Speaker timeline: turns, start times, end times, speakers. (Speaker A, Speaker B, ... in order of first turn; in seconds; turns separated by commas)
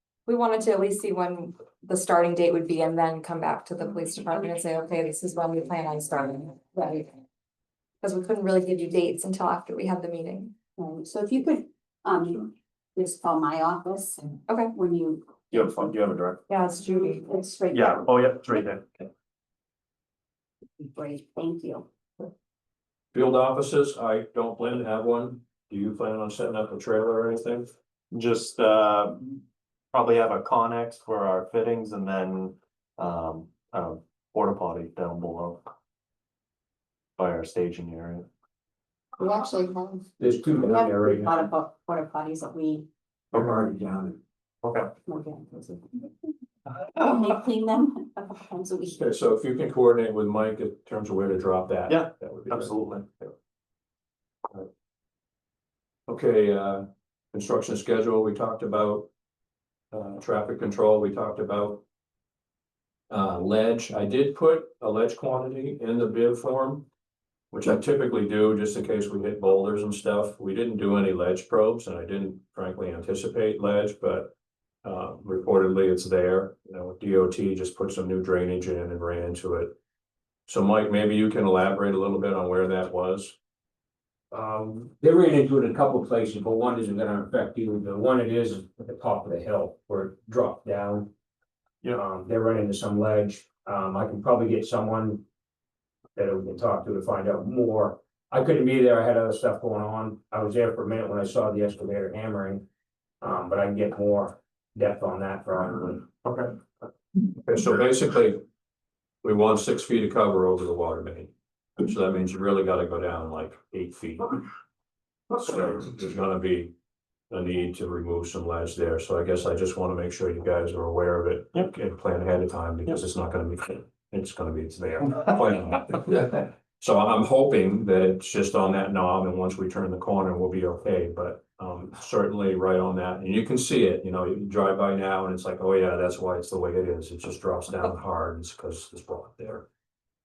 Speaker A: 0.3-7.1, Speaker A: 8.0-10.5, Speaker B: 10.8-15.3, Speaker A: 14.5-14.7, Speaker C: 15.5-16.4, Speaker A: 16.5-17.3, Speaker B: 16.8-18.1, Speaker C: 17.7-19.0, Speaker B: 20.8-21.9, Speaker D: 23.1-27.7, Speaker C: 28.1-29.4, Speaker C: 29.9-35.6, Speaker C: 37.2-38.3, Speaker A: 39.2-40.0, Speaker E: 40.2-41.3, Speaker B: 40.6-42.9, Speaker E: 43.3-44.2, Speaker C: 44.6-44.9, Speaker B: 45.1-46.0, Speaker B: 46.9-49.0, Speaker D: 48.9-53.3, Speaker C: 51.9-53.0, Speaker D: 56.1-59.1, Speaker D: 59.9-61.8, Speaker D: 63.1-66.9, Speaker D: 67.5-74.3, Speaker D: 74.8-79.8, Speaker D: 80.5-83.4, Speaker E: 84.3-91.1, Speaker E: 91.9-95.2, Speaker E: 96.2-102.6, Speaker E: 103.2-106.1, Speaker C: 106.2-106.5, Speaker D: 107.3-108.4, Speaker D: 109.2-114.4, Speaker D: 115.3-116.7, Speaker D: 117.3-139.7